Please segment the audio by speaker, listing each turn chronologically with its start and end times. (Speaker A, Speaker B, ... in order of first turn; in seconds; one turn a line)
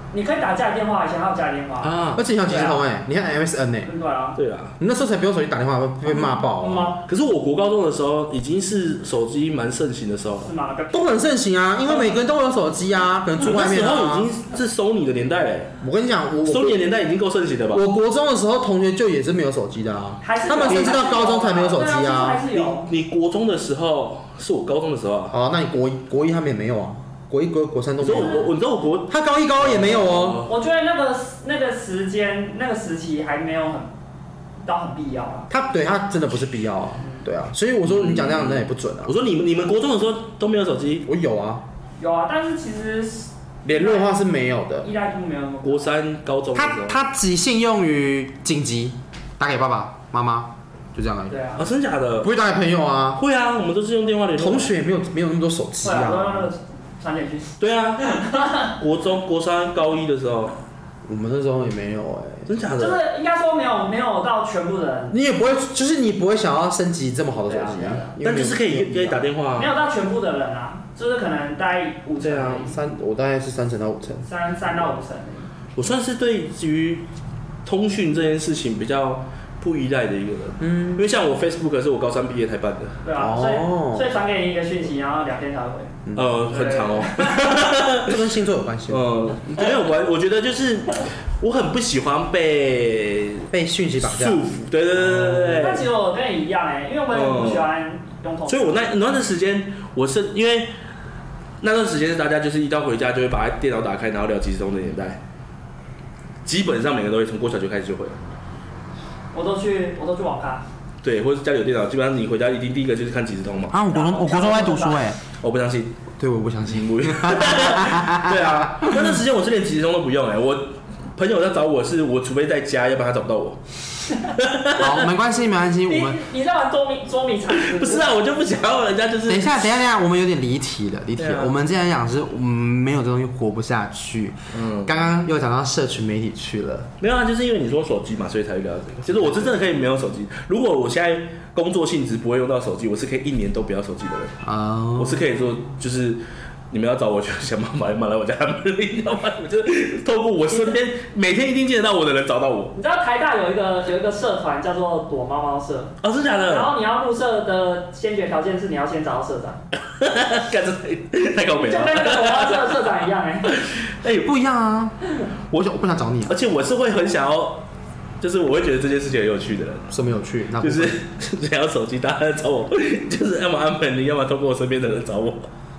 Speaker A: 0.1-2.8
Speaker B: 1.8-2.2
Speaker C: 2.1-3.9
Speaker A: 3.8-4.4
Speaker B: 4.4-4.8
Speaker C: 4.8-7.0
Speaker A: 6.1-7.0
Speaker B: 7.1-10.5
Speaker A: 10.4-11.2
Speaker C: 10.9-14.3
Speaker A: 11.8-12.2
Speaker B: 13.4-15.7
Speaker C: 15.8-16.8
Speaker B: 16.4-17.8
Speaker C: 17.7-22.5
Speaker A: 20.2-22.9
Speaker B: 20.6-20.9
Speaker B: 22.5-25.3
Speaker C: 25.3-28.5
Speaker B: 28.0-30.5
Speaker C: 29.1-30.4
Speaker A: 30.4-33.9
Speaker A: 34.6-35.5
Speaker C: 35.5-39.1
Speaker B: 37.8-41.1
Speaker C: 41.0-41.6
Speaker A: 42.0-44.1
Speaker C: 43.6-44.9
Speaker A: 44.8-45.9
Speaker B: 45.6-47.0
Speaker C: 46.5-51.3
Speaker A: 51.3-51.6
Speaker B: 51.6-52.3
Speaker C: 52.2-53.2
Speaker B: 53.2-54.7
Speaker C: 54.4-56.5
Speaker A: 55.8-58.7
Speaker B: 57.6-58.0
Speaker B: 58.6-60.6
Speaker C: 61.0-62.5
Speaker B: 62.5-63.0
Speaker A: 62.8-65.2
Speaker C: 65.1-69.2
Speaker A: 67.5-68.1
Speaker B: 68.2-69.7
Speaker A: 69.5-72.8
Speaker B: 72.2-72.7
Speaker C: 72.6-74.3
Speaker A: 74.2-75.5
Speaker B: 75.8-77.1
Speaker B: 77.6-83.0
Speaker C: 80.6-81.0
Speaker A: 83.0-86.0
Speaker C: 83.2-84.1
Speaker C: 86.0-86.3
Speaker B: 86.1-88.2
Speaker A: 86.5-87.5
Speaker C: 88.0-89.1
Speaker B: 88.9-93.5
Speaker C: 93.5-94.4
Speaker B: 94.0-95.9
Speaker C: 95.0-95.6
Speaker A: 95.6-98.9
Speaker B: 97.1-97.7
Speaker B: 98.5-100.7
Speaker B: 101.6-105.2
Speaker B: 106.4-108.2
Speaker A: 109.3-110.6
Speaker B: 111.0-113.8
Speaker C: 113.7-115.2
Speaker A: 113.9-115.0
Speaker B: 115.4-116.0
Speaker C: 116.2-119.2
Speaker B: 116.7-123.6
Speaker B: 124.1-125.1
Speaker C: 124.8-126.2
Speaker A: 125.9-128.1
Speaker B: 127.5-129.5
Speaker C: 129.3-136.9
Speaker B: 131.2-131.5
Speaker B: 134.5-135.0
Speaker B: 137.0-144.4
Speaker C: 139.1-139.5
Speaker C: 144.4-145.3
Speaker B: 145.0-152.7
Speaker A: 152.7-159.6
Speaker B: 156.0-156.7
Speaker B: 159.9-162.8
Speaker A: 161.5-163.5
Speaker B: 163.5-164.3
Speaker C: 164.2-164.9
Speaker C: 165.5-166.4
Speaker B: 166.3-167.6
Speaker B: 168.2-169.9
Speaker C: 169.9-171.0
Speaker B: 170.6-175.5